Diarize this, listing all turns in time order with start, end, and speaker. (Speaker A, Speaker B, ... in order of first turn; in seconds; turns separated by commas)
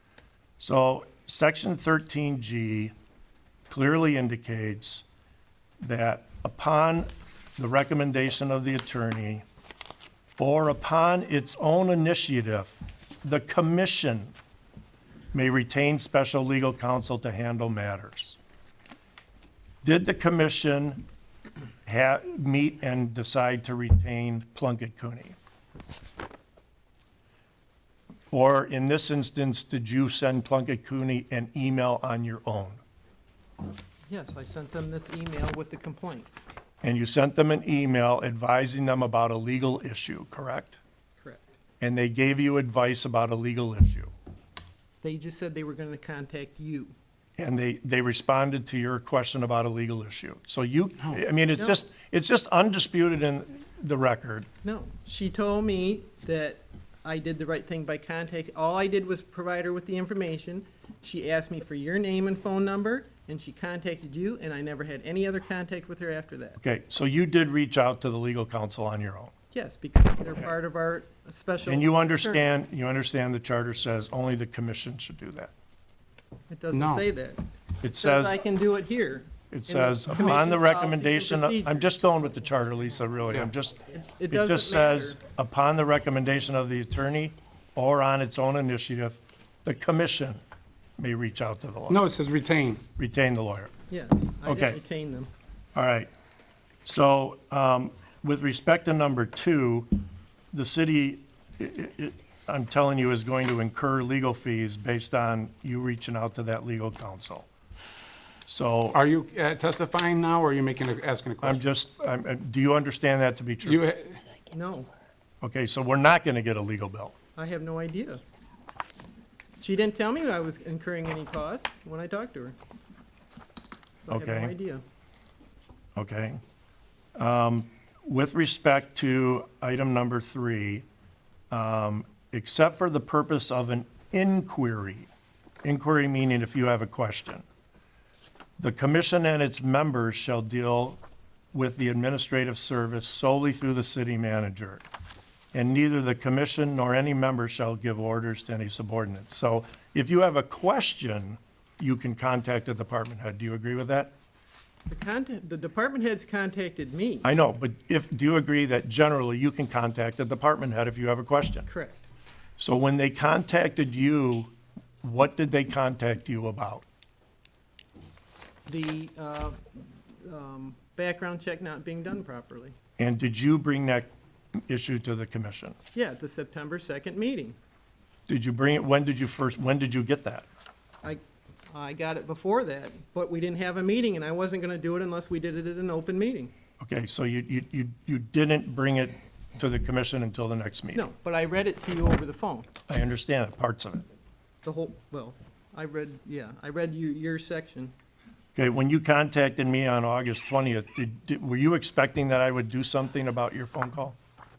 Speaker A: 0.6-2.9, Speaker A: 3.7-5.0, Speaker A: 5.8-9.4, Speaker A: 10.4-14.3, Speaker A: 15.3-18.4, Speaker A: 19.8-21.0, Speaker A: 21.8-25.4, Speaker A: 28.3-32.8, Speaker B: 34.1-36.3, Speaker A: 36.8-40.8, Speaker A: 41.8-44.1, Speaker B: 45.0-46.9, Speaker A: 47.4-54.5, Speaker B: 54.6-66.6, Speaker A: 66.6-69.3, Speaker B: 69.5-72.4, Speaker A: 71.7-75.5, Speaker B: 76.5-77.4, Speaker C: 76.7-77.0, Speaker A: 77.8-78.4, Speaker B: 78.0-82.2, Speaker A: 79.5-90.4, Speaker B: 83.9-85.2, Speaker A: 91.0-92.0, Speaker C: 91.9-92.8, Speaker A: 93.0-93.7, Speaker B: 93.9-95.3, Speaker A: 94.4-94.8, Speaker A: 95.7-96.1, Speaker A: 96.8-100.0, Speaker A: 100.5-107.5, Speaker A: 108.5-109.0, Speaker C: 108.9-111.6, Speaker A: 111.4-113.8, Speaker C: 113.6-114.2, Speaker B: 114.5-114.9, Speaker A: 115.4-117.2, Speaker B: 117.3-118.2, Speaker B: 119.6-122.6, Speaker B: 124.0-124.8, Speaker A: 124.1-124.5, Speaker A: 126.0-126.4, Speaker A: 127.2-130.8, Speaker A: 131.5-135.1, Speaker A: 135.6-137.4, Speaker A: 138.6-141.0, Speaker A: 141.5-144.8, Speaker A: 145.5-154.1, Speaker B: 154.9-157.3, Speaker A: 157.2-161.7, Speaker B: 161.7-162.0, Speaker A: 162.6-166.8, Speaker B: 168.7-169.6, Speaker B: 170.2-172.7, Speaker A: 173.0-175.8, Speaker B: 175.9-177.6, Speaker A: 178.3-180.5, Speaker B: 181.0-186.5, Speaker A: 186.8-191.0, Speaker B: 190.9-192.7, Speaker A: 192.9-194.1, Speaker B: 194.6-197.9, Speaker A: 198.5-204.2